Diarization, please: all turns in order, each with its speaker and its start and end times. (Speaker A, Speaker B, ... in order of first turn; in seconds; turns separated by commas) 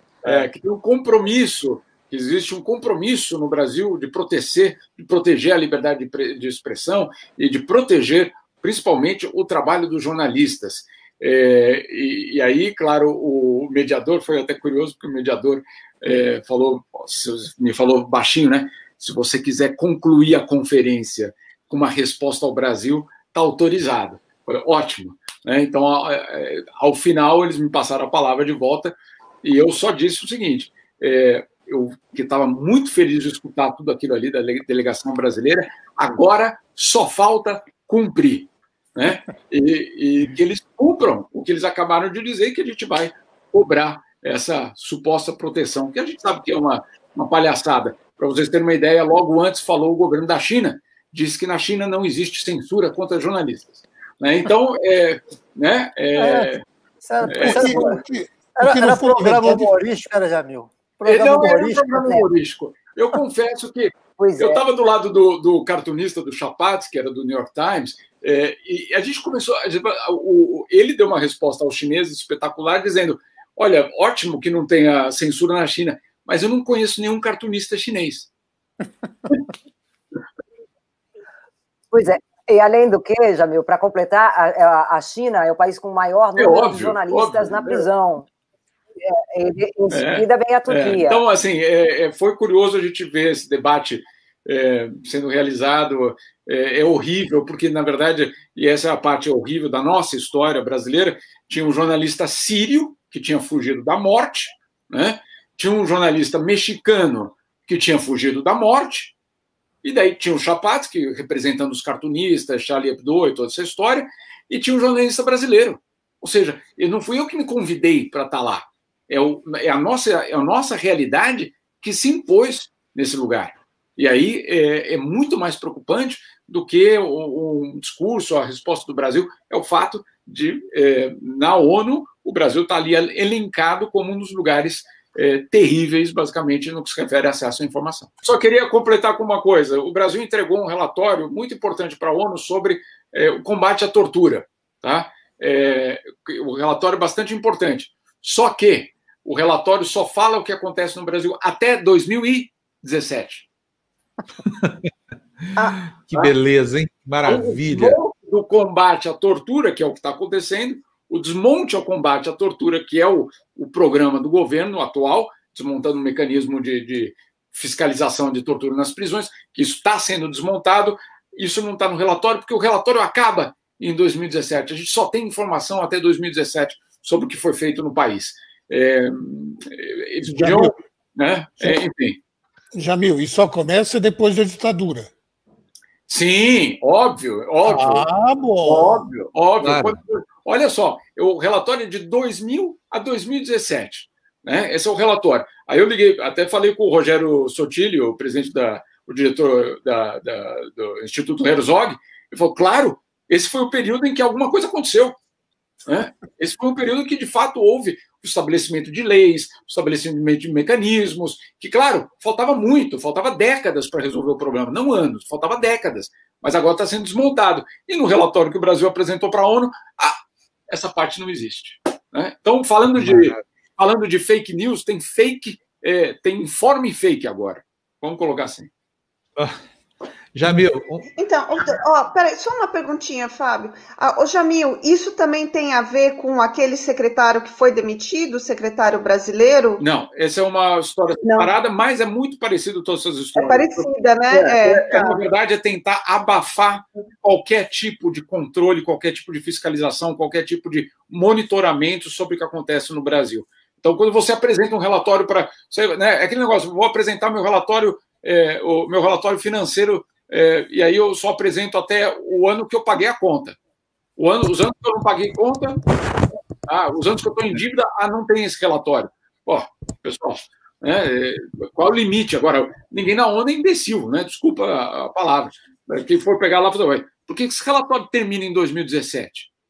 Speaker A: 0.2-56.6, Speaker B: 56.1-58.0, Speaker A: 57.2-57.9, Speaker C: 57.3-59.7, Speaker B: 58.5-62.1, Speaker A: 61.0-78.3, Speaker D: 61.3-62.3, Speaker D: 64.2-64.6, Speaker D: 81.9-88.3, Speaker A: 86.3-87.9, Speaker D: 89.0-91.2, Speaker A: 89.9-109.1, Speaker A: 109.8-153.5, Speaker E: 154.5-154.8, Speaker E: 155.5-158.0, Speaker A: 157.2-182.2, Speaker C: 180.3-180.7, Speaker C: 182.7-185.1, Speaker A: 186.1-188.1, Speaker C: 187.7-189.0, Speaker A: 188.6-205.2, Speaker E: 189.6-189.9, Speaker A: 205.9-220.1, Speaker A: 220.7-228.7, Speaker E: 223.0-223.4, Speaker E: 230.3-231.1, Speaker F: 231.2-239.8, Speaker A: 239.8-263.6, Speaker F: 241.2-241.5, Speaker F: 243.3-245.2, Speaker A: 264.2-265.8, Speaker A: 266.6-279.5